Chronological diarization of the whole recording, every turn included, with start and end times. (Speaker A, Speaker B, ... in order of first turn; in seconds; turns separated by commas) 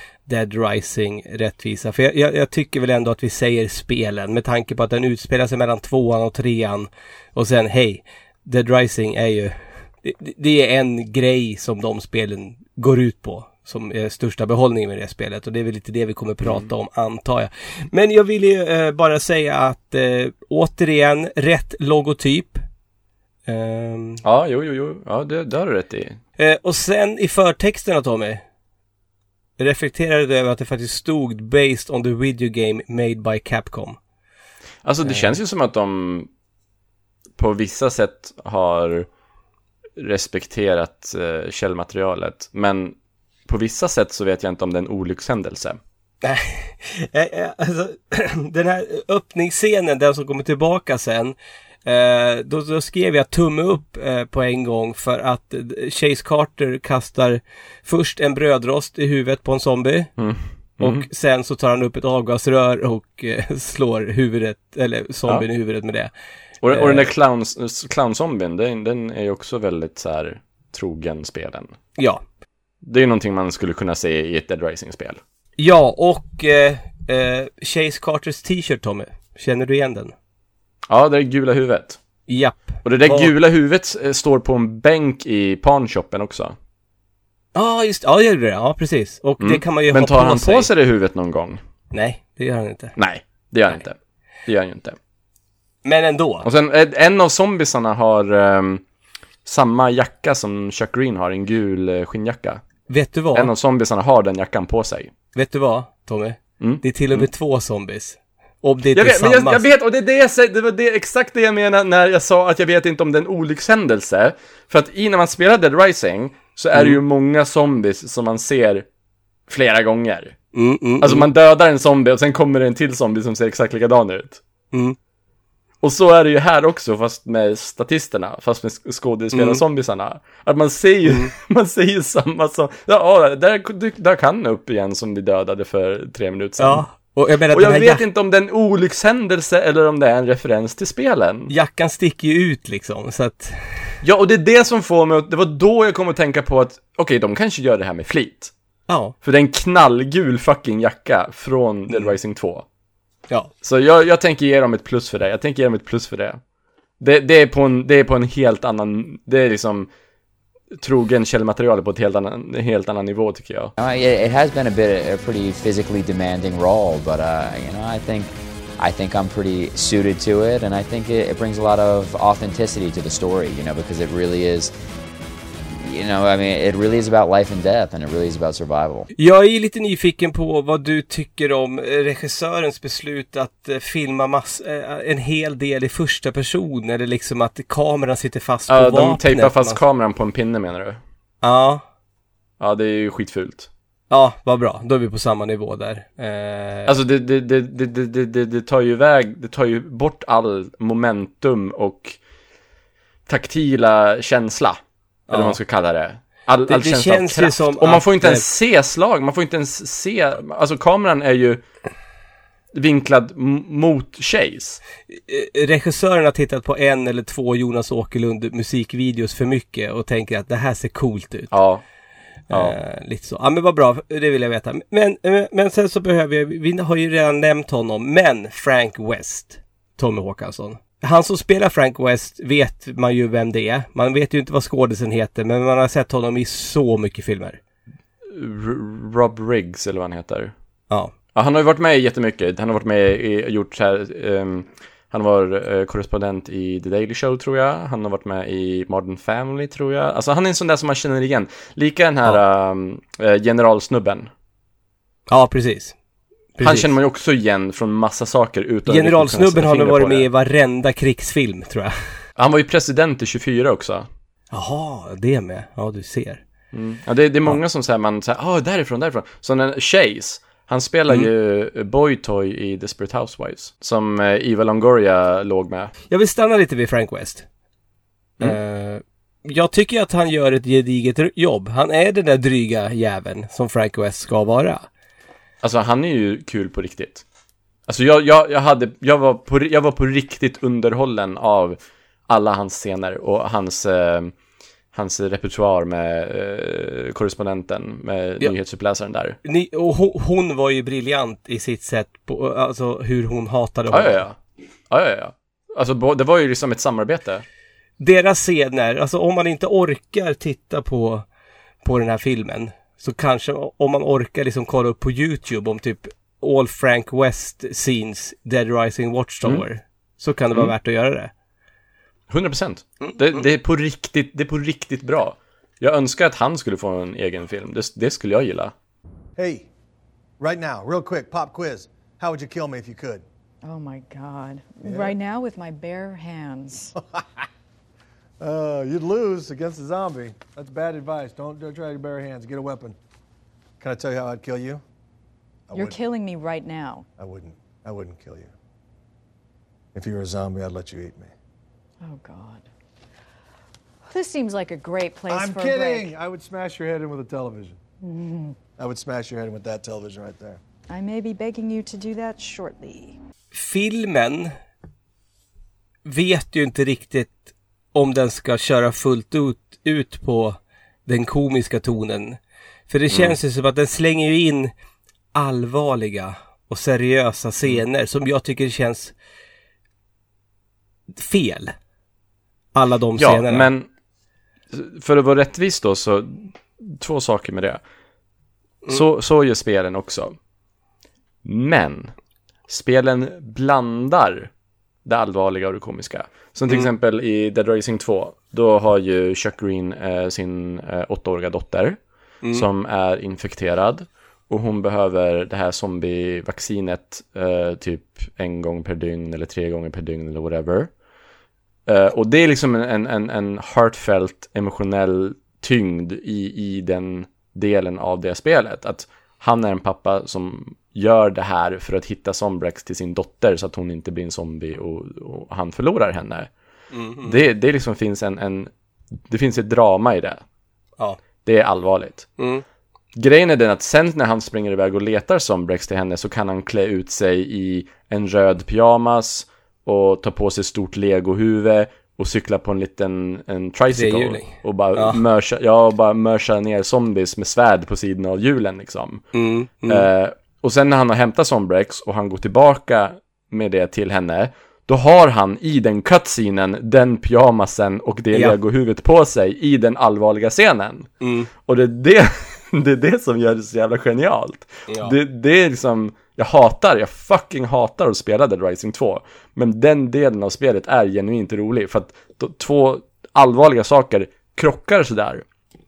Speaker A: 0.3-22.6, Speaker B: 16.4-16.7, Speaker A: 23.5-24.2, Speaker B: 24.2-26.2, Speaker A: 26.4-28.4, Speaker A: 29.6-34.0, Speaker B: 34.9-36.3, Speaker B: 37.4-39.1, Speaker B: 40.0-43.0, Speaker B: 43.5-45.8, Speaker A: 46.2-60.1, Speaker B: 60.2-61.1, Speaker A: 60.8-66.1, Speaker B: 66.6-71.8, Speaker A: 66.7-67.1, Speaker A: 72.0-72.2, Speaker B: 72.8-75.2, Speaker A: 75.6-80.1, Speaker B: 80.9-82.0, Speaker A: 82.3-83.3, Speaker B: 82.8-86.6, Speaker A: 87.5-90.7, Speaker B: 89.4-91.6, Speaker A: 91.9-93.0, Speaker B: 93.0-95.0, Speaker A: 95.8-96.5, Speaker B: 96.4-98.8, Speaker B: 99.5-102.6, Speaker A: 102.9-103.5, Speaker B: 103.3-105.1, Speaker A: 105.3-109.7, Speaker B: 106.6-107.3, Speaker B: 108.9-118.9, Speaker B: 119.5-120.4, Speaker A: 120.5-121.3, Speaker B: 121.0-124.4, Speaker B: 125.8-136.9, Speaker A: 129.3-129.6, Speaker A: 131.1-131.3, Speaker A: 136.6-138.0, Speaker B: 137.5-141.5, Speaker A: 141.5-144.0, Speaker B: 144.0-148.5, Speaker A: 148.9-149.2, Speaker B: 149.2-152.7, Speaker A: 151.9-152.2, Speaker B: 153.6-156.4, Speaker B: 157.0-159.9, Speaker B: 160.8-163.7, Speaker C: 163.8-174.7, Speaker C: 175.8-179.1, Speaker A: 179.2-189.8, Speaker B: 188.7-191.0, Speaker A: 191.4-191.8, Speaker B: 192.6-193.7, Speaker A: 194.1-196.9, Speaker B: 196.9-202.2, Speaker B: 203.3-211.6, Speaker A: 205.3-205.6, Speaker A: 206.7-208.4, Speaker B: 212.7-214.8, Speaker A: 215.1-221.5, Speaker B: 221.5-221.8, Speaker A: 222.5-237.6, Speaker B: 222.5-222.8, Speaker B: 238.2-240.5, Speaker B: 241.3-254.3, Speaker A: 255.3-256.0, Speaker A: 256.6-256.9, Speaker B: 256.6-260.3, Speaker A: 258.9-262.0, Speaker B: 262.4-264.1, Speaker A: 264.5-266.4, Speaker B: 266.7-275.9, Speaker A: 276.1-277.5, Speaker A: 278.4-284.9, Speaker B: 285.6-287.2, Speaker B: 287.9-294.4, Speaker B: 294.9-299.4, Speaker A: 299.4-304.2, Speaker B: 303.9-304.4, Speaker B: 304.9-307.4, Speaker A: 308.0-311.3, Speaker A: 311.8-321.3, Speaker B: 322.3-328.7, Speaker D: 329.4-329.7, Speaker D: 330.4-333.2, Speaker E: 333.6-336.9, Speaker D: 334.8-335.1, Speaker D: 337.0-337.2, Speaker D: 338.4-343.0, Speaker D: 343.8-344.8, Speaker D: 345.7-346.0, Speaker E: 345.7-347.1, Speaker D: 347.2-348.5, Speaker D: 349.9-351.3, Speaker E: 352.0-352.7, Speaker E: 354.1-356.1, Speaker D: 355.3-357.8, Speaker E: 358.0-358.6, Speaker D: 358.8-360.6, Speaker E: 360.9-363.2, Speaker A: 363.5-364.5, Speaker A: 366.1-372.4, Speaker A: 372.9-374.7, Speaker B: 373.1-373.4, Speaker A: 375.3-379.1, Speaker A: 381.1-381.7, Speaker A: 382.7-383.7, Speaker B: 383.2-383.9, Speaker B: 384.7-387.8, Speaker B: 388.9-390.4, Speaker B: 391.4-392.1, Speaker B: 392.7-394.5, Speaker B: 395.1-402.0, Speaker B: 402.5-410.9, Speaker B: 411.9-426.5, Speaker A: 426.9-427.4, Speaker B: 427.2-428.7, Speaker B: 429.3-430.4, Speaker B: 431.4-432.3, Speaker A: 432.4-432.6, Speaker B: 433.1-449.3, Speaker A: 443.9-445.2, Speaker A: 449.3-450.1, Speaker B: 449.9-461.1, Speaker A: 461.2-461.5, Speaker B: 461.6-475.4, Speaker A: 464.9-465.1